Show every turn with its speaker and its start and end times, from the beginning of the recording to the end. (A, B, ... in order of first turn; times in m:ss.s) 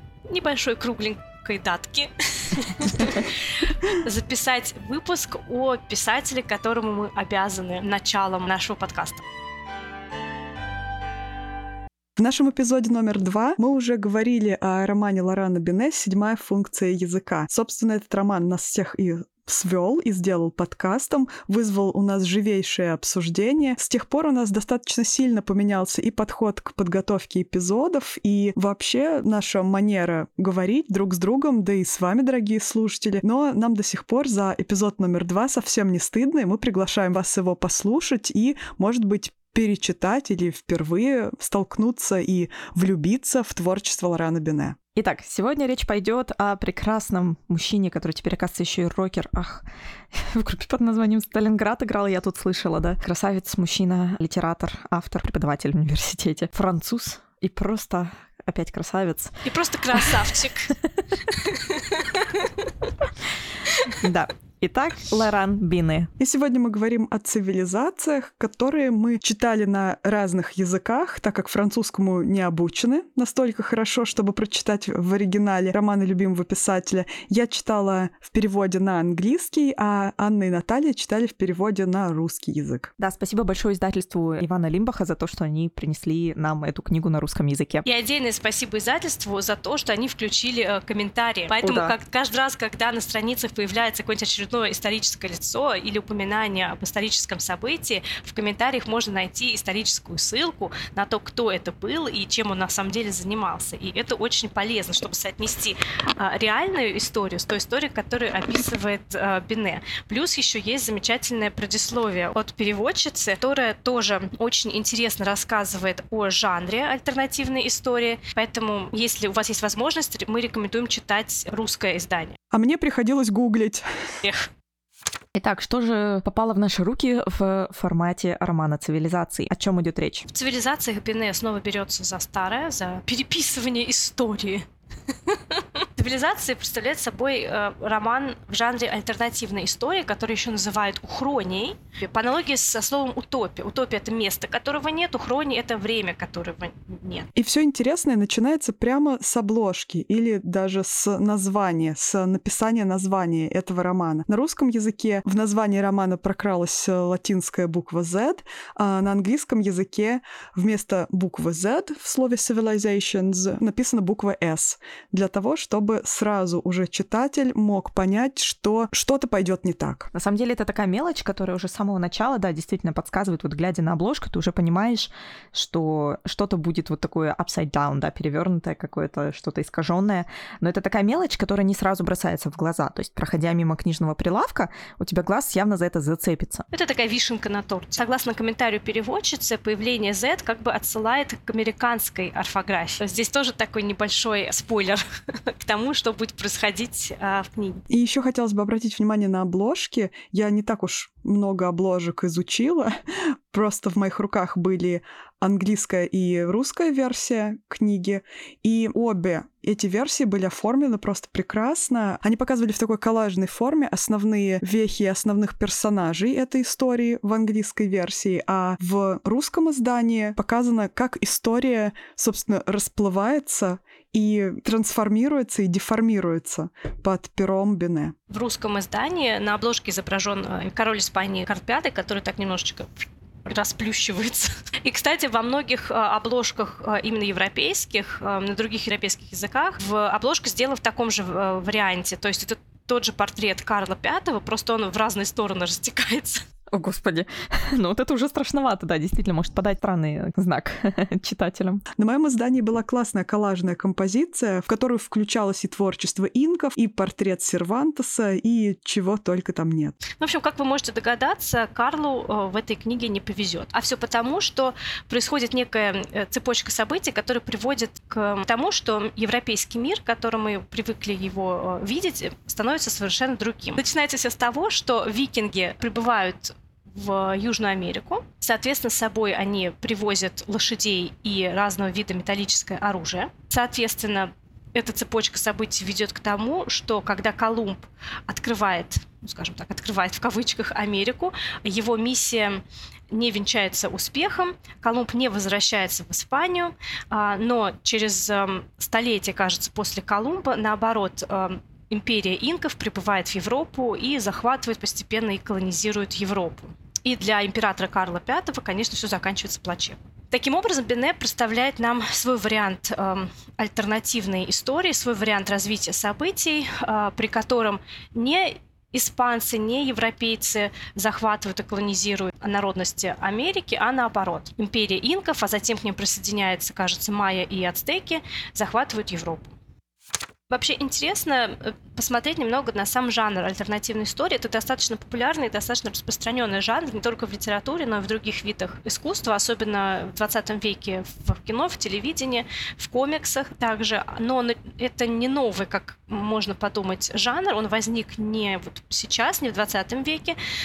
0:00.3-0:09.2 A
0:12.2-0:44.8 B
0:45.0-0:59.4 C
0:59.4-1:00.8 A
1:01.3-1:02.7 A
1:03.7-1:04.0 A
1:03.9-1:06.1 C
1:06.2-1:22.9 B
1:23.0-1:27.8 C
1:27.8-2:02.4 A
1:31.6-1:31.9 C
2:02.5-2:04.2 B
2:04.2-2:04.5 A
2:05.4-2:10.3 C
2:10.3-2:14.6 A
2:15.3-2:27.3 A
2:27.4-2:50.1 B
2:50.1-3:06.7 C
3:06.7-3:17.8 A
3:17.9-3:48.2 B
3:48.3-4:06.4 A
4:06.7-4:11.8 C
4:12.0-4:20.0 B
4:20.2-5:29.6 A
5:30.5-5:50.4 A